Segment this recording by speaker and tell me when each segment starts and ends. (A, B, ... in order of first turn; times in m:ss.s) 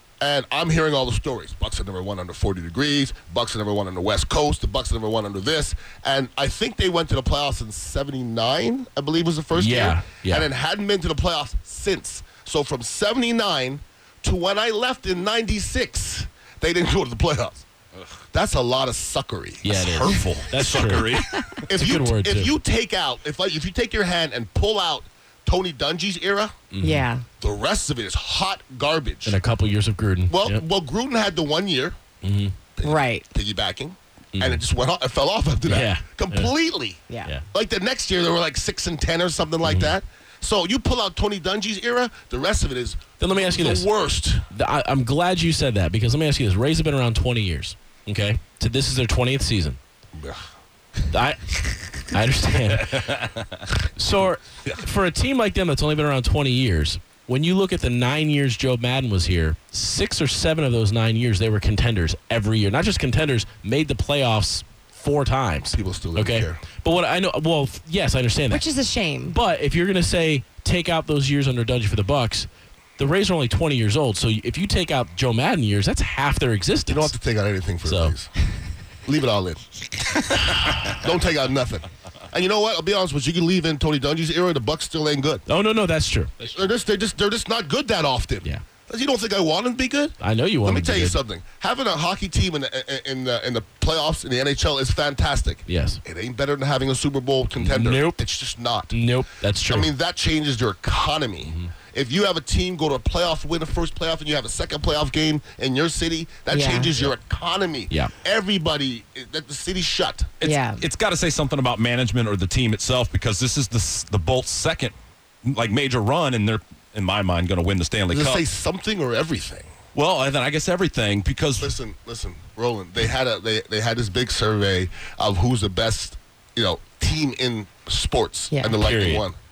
0:00.2-0:17.6 A
0:09.5-0:10.5 B
0:18.3-0:21.0 A
0:19.6-0:21.0 B
0:19.8-0:21.7 C
0:21.6-0:26.6 A
0:21.7-0:22.5 B
0:26.7-0:27.1 B
0:26.8-0:27.2 D
0:27.4-0:29.4 A
0:29.3-0:30.6 B
0:30.3-0:32.0 A
0:32.2-0:32.6 B
0:32.8-0:37.0 A
0:32.8-0:33.3 D
0:34.4-0:34.6 B
0:35.7-0:36.5 B
0:37.5-0:44.4 A
0:39.6-0:40.0 B
0:43.2-0:43.9 B
0:44.5-0:49.8 B
0:51.1-0:53.2 B
0:54.0-1:08.7 B
1:05.7-1:06.6 A
1:08.5-1:09.4 D
1:09.3-1:17.1 B
1:16.9-1:18.3 A
1:17.8-1:18.2 B
1:19.1-1:19.6 A
1:20.9-1:25.4 A
1:25.5-1:26.5 B
1:26.4-1:39.0 A
1:30.2-1:31.2 B
1:35.7-1:36.0 B
1:37.6-1:38.2 B
1:38.9-1:39.9 B
1:39.7-1:50.4 A
1:46.5-1:46.9 D
1:50.4-1:58.4 C
1:50.4-1:50.8 D
1:58.1-1:59.7 A
2:00.0-2:01.7 C
2:01.6-2:09.4 A
2:08.5-2:08.8 D
2:08.8-2:09.3 B